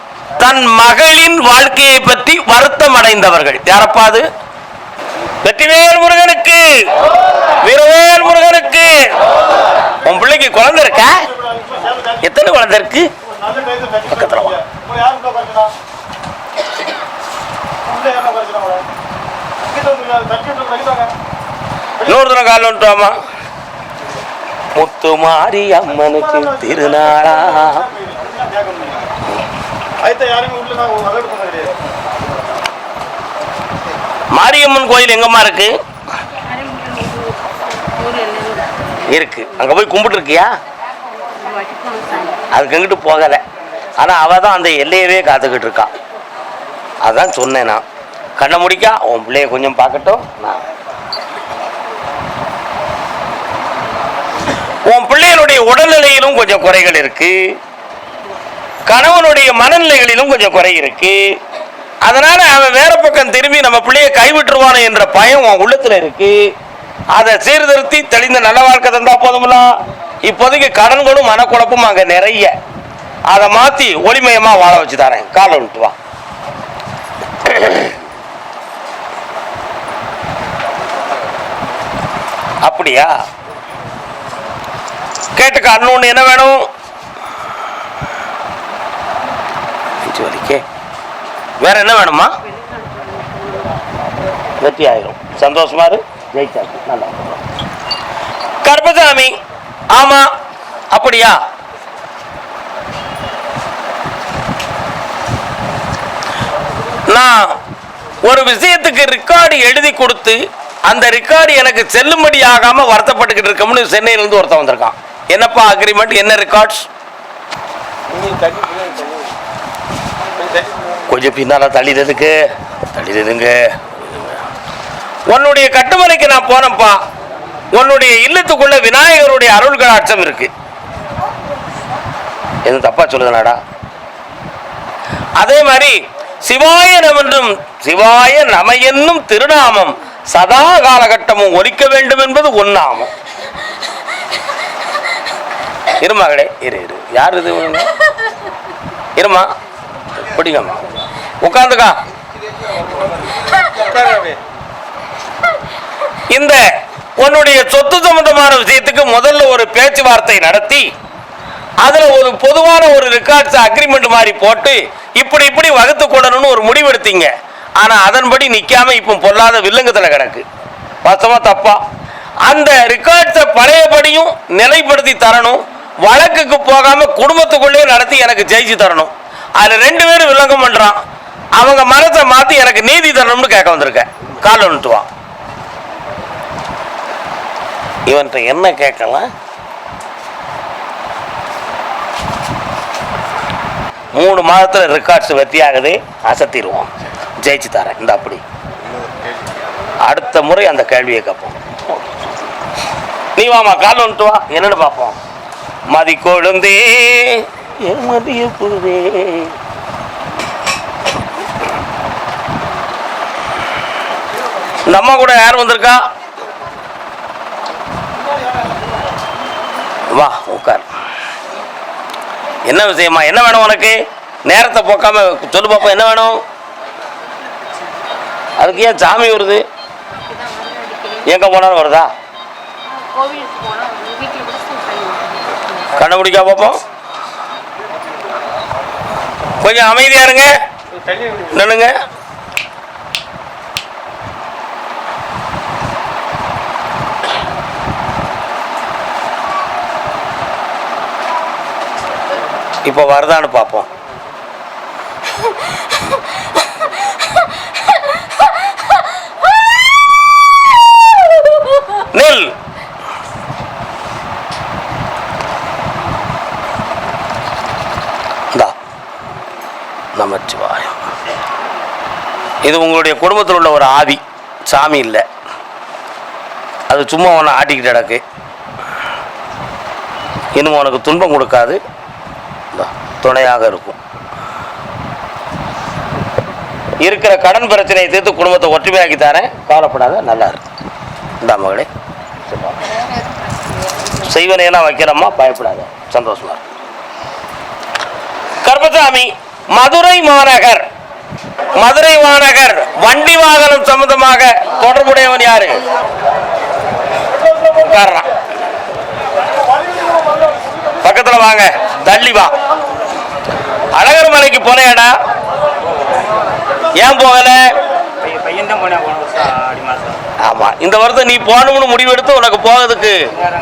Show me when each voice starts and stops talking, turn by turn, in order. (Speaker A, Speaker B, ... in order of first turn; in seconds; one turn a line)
Speaker A: 0.4-4.2
Speaker A: 5.4-6.8
Speaker A: 7.6-9.1
Speaker A: 10.0-11.3
Speaker B: 11.4-12.2
Speaker A: 12.2-13.1
Speaker B: 13.4-15.7
Speaker A: 14.1-14.6
Speaker B: 17.9-18.9
Speaker B: 19.6-21.1
Speaker A: 22.0-23.1
Speaker A: 24.8-27.9
Speaker B: 27.1-29.0
Speaker B: 30.0-31.7
Speaker A: 34.4-35.7
Speaker B: 36.5-38.8
Speaker A: 39.1-40.5
Speaker B: 41.4-42.4
Speaker A: 42.5-43.4
Speaker A: 44.0-45.9
Speaker A: 47.0-47.8
Speaker A: 48.4-50.6
Speaker A: 54.9-57.4
Speaker A: 58.9-61.2
Speaker A: 62.0-66.4
Speaker A: 67.1-72.5
Speaker A: 73.3-75.9
Speaker A: 77.4-77.9
Speaker A: 82.6-83.1
Speaker A: 85.3-86.7
Speaker A: 90.0-90.6
Speaker A: 91.6-92.3
Speaker B: 92.5-93.8
Speaker A: 94.6-97.4
Speaker A: 98.6-99.3
Speaker A: 99.9-100.2
Speaker A: 100.9-101.4
Speaker A: 107.1-107.5
Speaker A: 108.2-116.9
Speaker C: 118.1-119.2
Speaker A: 121.1-122.3
Speaker A: 122.9-124.4
Speaker A: 125.3-127.0
Speaker A: 127.7-130.5
Speaker A: 132.7-133.6
Speaker A: 135.4-143.1
Speaker A: 146.0-147.9
Speaker A: 149.2-149.5
Speaker A: 150.2-150.9
Speaker A: 151.4-151.9
Speaker C: 153.9-154.3
Speaker A: 156.3-156.6
Speaker A: 157.2-160.9
Speaker A: 161.8-170.4
Speaker A: 171.0-171.8
Speaker A: 172.4-181.0
Speaker A: 181.6-185.1
Speaker A: 188.1-189.3
Speaker A: 194.2-196.9
Speaker A: 197.4-198.4
Speaker A: 200.0-202.1
Speaker A: 203.4-205.2
Speaker A: 205.9-209.5
Speaker A: 214.8-216.0
Speaker A: 220.1-220.8
Speaker A: 222.7-226.4
Speaker A: 228.6-229.6
Speaker B: 230.1-231.3
Speaker A: 231.2-232.1
Speaker B: 233.1-235.9
Speaker A: 235.9-236.8
Speaker A: 239.6-240.5
Speaker A: 241.5-241.9
Speaker A: 252.8-253.9
Speaker A: 262.1-262.5
Speaker A: 270.1-270.9
Speaker A: 272.6-275.2
Speaker A: 276.9-278.2
Speaker A: 280.5-281.8
Speaker A: 282.7-284.0
Speaker A: 287.0-290.6
Speaker A: 291.4-291.9
Speaker A: 292.5-292.8
Speaker B: 293.0-293.3
Speaker A: 294.2-296.6
Speaker A: 298.6-300.8
Speaker A: 301.7-305.8
Speaker A: 307.7-308.3
Speaker A: 311.0-312.5
Speaker A: 313.9-315.1
Speaker A: 317.0-317.8
Speaker C: 318.2-320.2
Speaker A: 320.4-323.2